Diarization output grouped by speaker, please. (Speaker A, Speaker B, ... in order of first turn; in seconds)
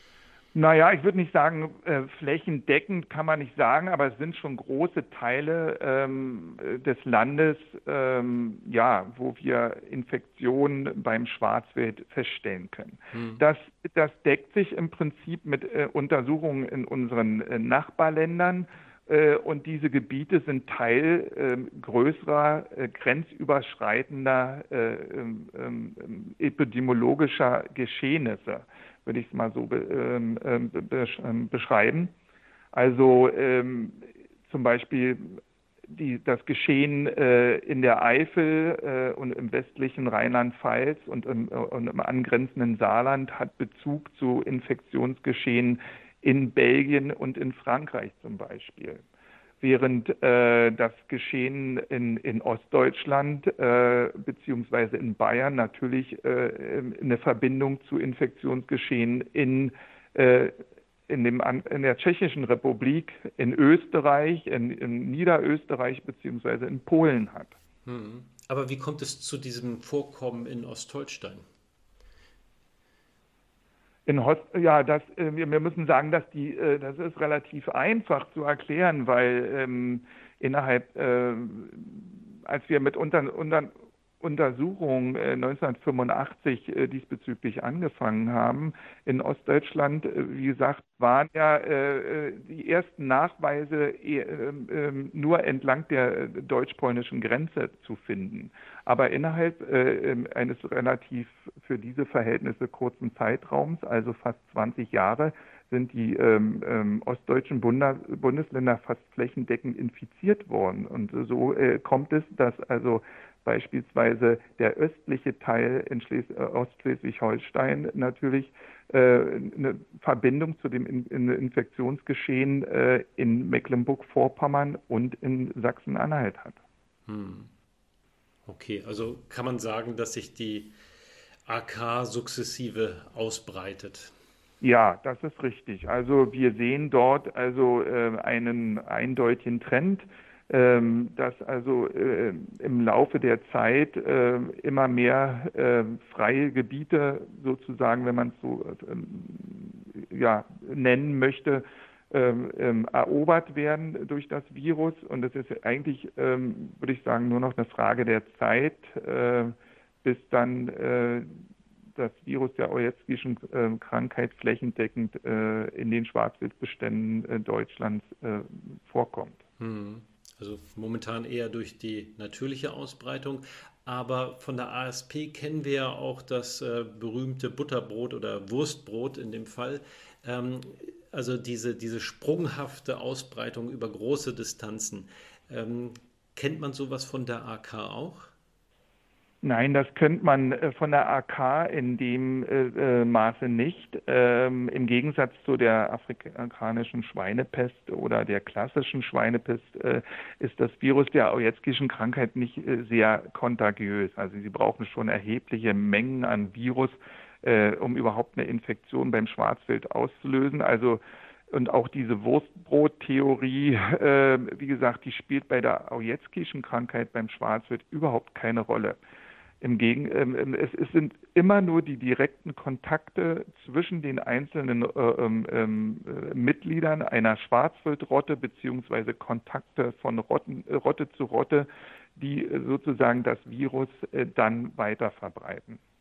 Speaker A: 0.5-32.1, 32.7-49.0, 49.6-67.6, 74.0-126.6, 134.6-161.4, 161.9-169.4, 189.4-219.0, 219.6-235.8
Speaker B: 13.1-13.4, 67.8-71.4, 127.1-127.5, 128.5-130.7, 131.4-134.1, 169.6-188.3